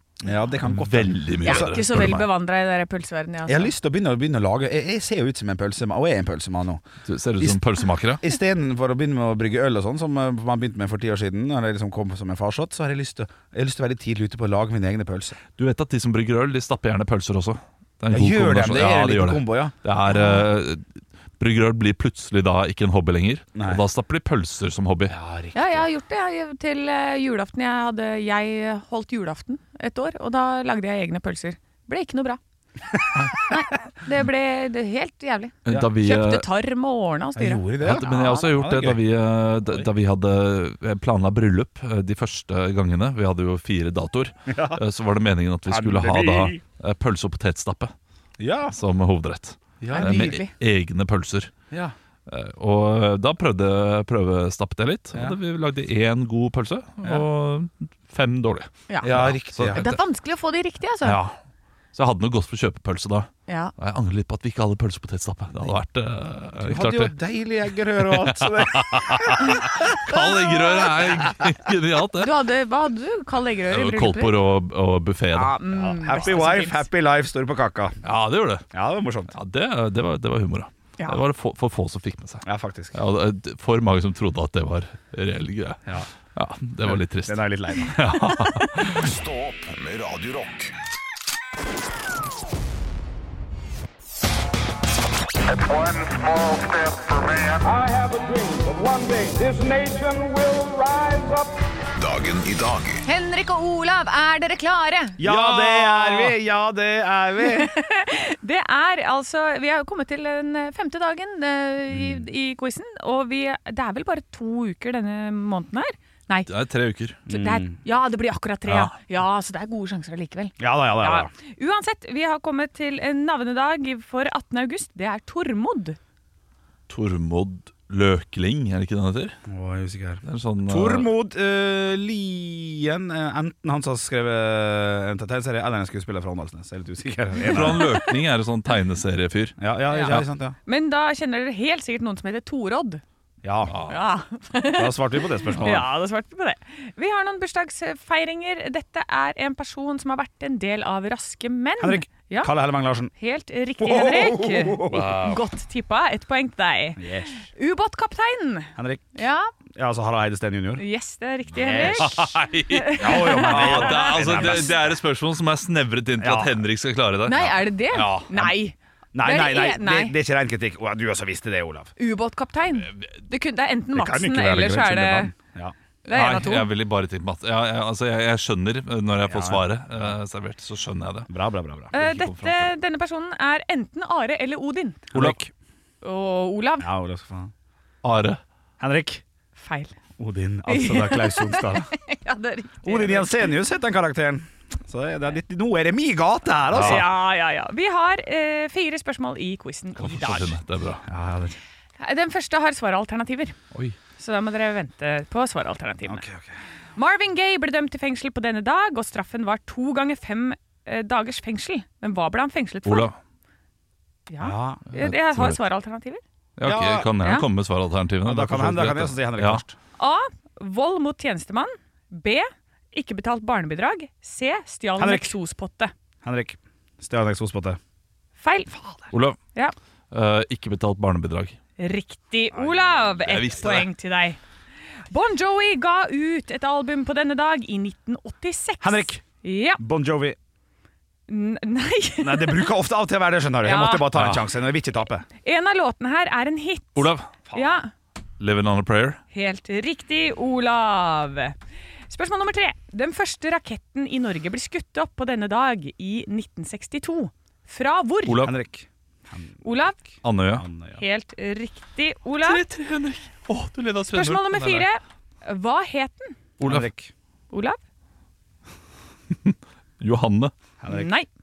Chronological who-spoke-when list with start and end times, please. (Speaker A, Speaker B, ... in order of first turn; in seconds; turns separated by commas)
Speaker A: 0.2-1.8, Speaker B: 0.6-2.3, Speaker C: 1.4-3.7, Speaker A: 3.5-6.8, Speaker B: 7.0-8.2, Speaker A: 7.4-15.4, Speaker B: 15.6-20.8, Speaker A: 18.1-19.7, Speaker C: 20.1-20.4, Speaker B: 21.4-25.2, Speaker A: 23.5-23.8, Speaker A: 25.1-25.8, Speaker C: 25.5-32.4, Speaker C: 33.3-38.5, Speaker B: 35.6-36.4, Speaker A: 37.4-39.0, Speaker B: 37.8-47.9, Speaker A: 44.5-44.8, Speaker A: 45.7-46.6, Speaker A: 48.4-48.7, Speaker B: 48.7-51.5, Speaker A: 49.8-50.4, Speaker C: 49.9-50.5, Speaker B: 52.3-60.0, Speaker C: 58.9-59.2, Speaker A: 59.0-59.9, Speaker C: 59.7-61.2, Speaker B: 61.0-61.3, Speaker B: 61.9-67.1, Speaker C: 63.5-63.7, Speaker A: 66.6-69.9, Speaker B: 68.1-72.3, Speaker C: 69.4-71.0, Speaker C: 72.2-74.3, Speaker B: 73.7-75.5, Speaker C: 75.3-76.9, Speaker A: 75.7-78.0, Speaker B: 78.0-78.7, Speaker A: 78.7-79.3, Speaker B: 79.3-89.1, Speaker A: 82.4-83.0, Speaker A: 86.8-88.0, Speaker D: 88.8-90.7, Speaker D: 95.6-97.6, Speaker E: 97.8-101.4, Speaker D: 102.0-103.0, Speaker C: 103.0-105.2, Speaker A: 105.2-107.7, Speaker B: 105.2-106.3, Speaker C: 107.4-116.5, Speaker A: 111.9-112.2, Speaker B: 116.5-117.2, Speaker A: 117.3-117.7, Speaker C: 117.3-126.0, Speaker B: 118.7-118.9, Speaker A: 120.6-121.3, Speaker B: 126.9-129.4, Speaker A: 129.5-137.9, Speaker B: 130.2-131.1, Speaker B: 137.5-139.6, Speaker C: 137.6-138.0, Speaker A: 139.6-140.6, Speaker C: 139.9-143.0, Speaker A: 143.4-143.7, Speaker B: 143.7-144.0, Speaker C: 143.8-145.0, Speaker A: 144.7-145.9, Speaker C: 145.5-152.5, Speaker A: 151.8-153.1, Speaker C: 153.1-159.5, Speaker A: 153.8-155.1, Speaker B: 154.9-155.4, Speaker A: 157.0-157.5, Speaker A: 158.8-159.1, Speaker A: 159.7-160.8, Speaker C: 160.8-164.7, Speaker A: 161.5-162.3, Speaker B: 161.8-168.5, Speaker A: 163.0-164.9, Speaker A: 166.2-166.6, Speaker C: 167.2-170.1, Speaker A: 169.1-171.9, Speaker C: 172.0-175.3, Speaker B: 172.8-173.2, Speaker A: 173.9-175.7, Speaker C: 176.0-176.7, Speaker B: 176.1-181.3, Speaker A: 179.2-180.2, Speaker A: 181.3-182.1, Speaker C: 181.9-185.1, Speaker B: 182.0-182.7, Speaker A: 185.1-185.5, Speaker C: 186.0-186.9, Speaker A: 186.8-187.5, Speaker B: 188.0-188.4, Speaker A: 188.8-189.2, Speaker C: 189.6-189.9, Speaker A: 190.2-191.9, Speaker C: 190.7-193.5, Speaker A: 192.8-197.1, Speaker B: 196.7-197.0, Speaker C: 196.7-200.5, Speaker B: 199.9-201.0, Speaker A: 201.1-201.6, Speaker C: 202.0-203.6, Speaker C: 204.2-206.2, Speaker A: 206.0-206.5, Speaker C: 206.9-213.1, Speaker B: 212.8-213.2, Speaker C: 214.3-216.2, Speaker A: 214.4-214.8, Speaker B: 214.9-215.6, Speaker B: 216.6-219.6, Speaker A: 216.6-217.1, Speaker C: 217.2-217.4, Speaker A: 218.2-219.8, Speaker C: 220.0-225.9, Speaker A: 225.0-225.3, Speaker A: 226.2-227.8, Speaker C: 228.4-229.7, Speaker B: 229.1-229.4, Speaker B: 230.1-231.6, Speaker C: 231.8-234.4, Speaker A: 232.5-233.3, Speaker B: 233.2-233.9, Speaker C: 235.1-239.8, Speaker A: 238.8-239.2, Speaker A: 239.8-240.4, Speaker C: 241.3-242.7, Speaker A: 242.2-245.2, Speaker C: 243.6-244.1, Speaker B: 244.1-244.4, Speaker C: 245.4-247.9, Speaker B: 246.9-247.3, Speaker B: 248.4-249.2, Speaker C: 249.3-251.6, Speaker C: 252.1-258.4, Speaker B: 258.3-258.5, Speaker A: 258.3-261.0, Speaker C: 259.6-260.0, Speaker B: 260.2-260.6, Speaker C: 261.0-262.6, Speaker B: 262.4-264.9, Speaker C: 264.1-266.4, Speaker B: 266.6-266.9, Speaker A: 266.6-267.1, Speaker C: 267.5-267.8, Speaker B: 269.3-270.5, Speaker A: 270.8-271.1, Speaker C: 270.9-271.3